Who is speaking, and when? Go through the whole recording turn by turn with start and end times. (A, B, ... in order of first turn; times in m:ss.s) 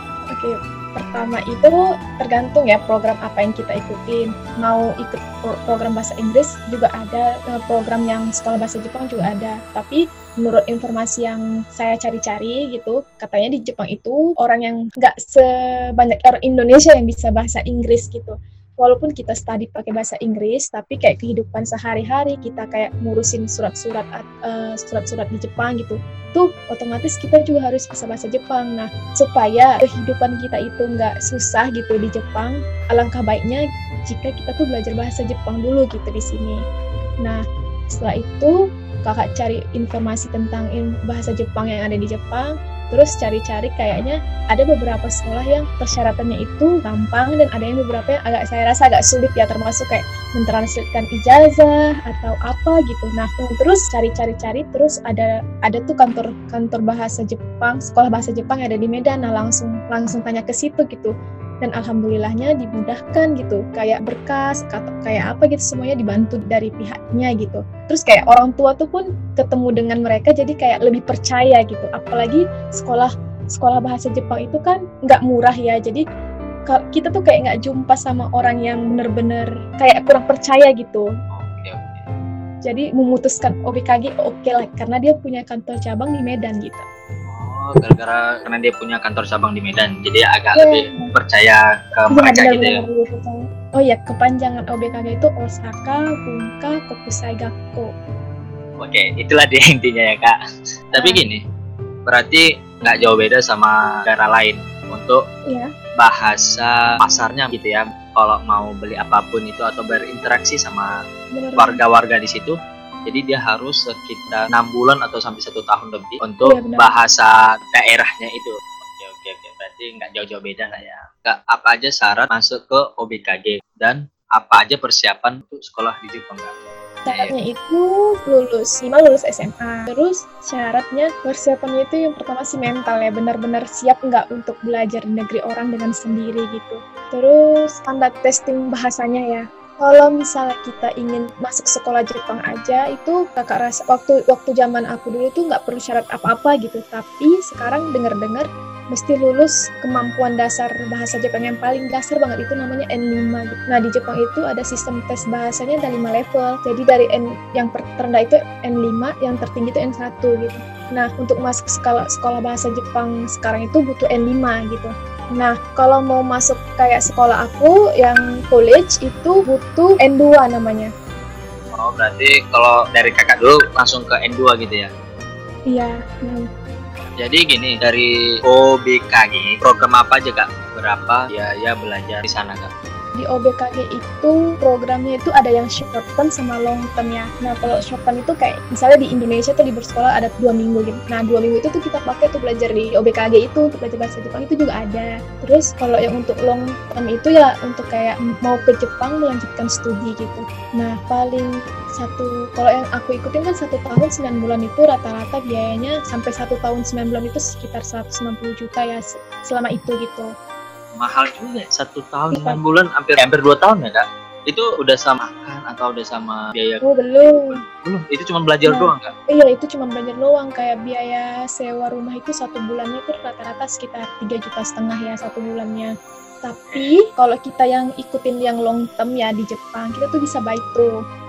0:00.3-0:36.6 A
0:37.2-1:16.0 A
1:16.7-1:21.1 A
1:21.3-1:22.0 B
1:22.6-1:26.8 A
1:27.3-1:32.8 B
1:30.6-1:31.1 A
1:32.1-1:37.9 A
1:38.8-1:40.4 B
1:40.9-1:41.4 B
1:40.9-1:41.2 A
1:42.1-1:45.2 B
1:46.0-1:50.9 B
1:51.3-1:51.8 A
1:51.6-2:06.5 B
1:56.4-1:56.9 A
2:07.0-2:50.9 A
2:07.1-2:07.3 B
2:51.7-2:54.9 B
2:55.7-2:56.5 A
2:57.2-3:02.7 B
3:03.2-3:30.3 A
3:31.0-3:39.1 B
3:32.3-3:32.6 A
3:36.8-3:37.5 A
3:38.7-3:45.9 A
3:46.4-3:50.9 A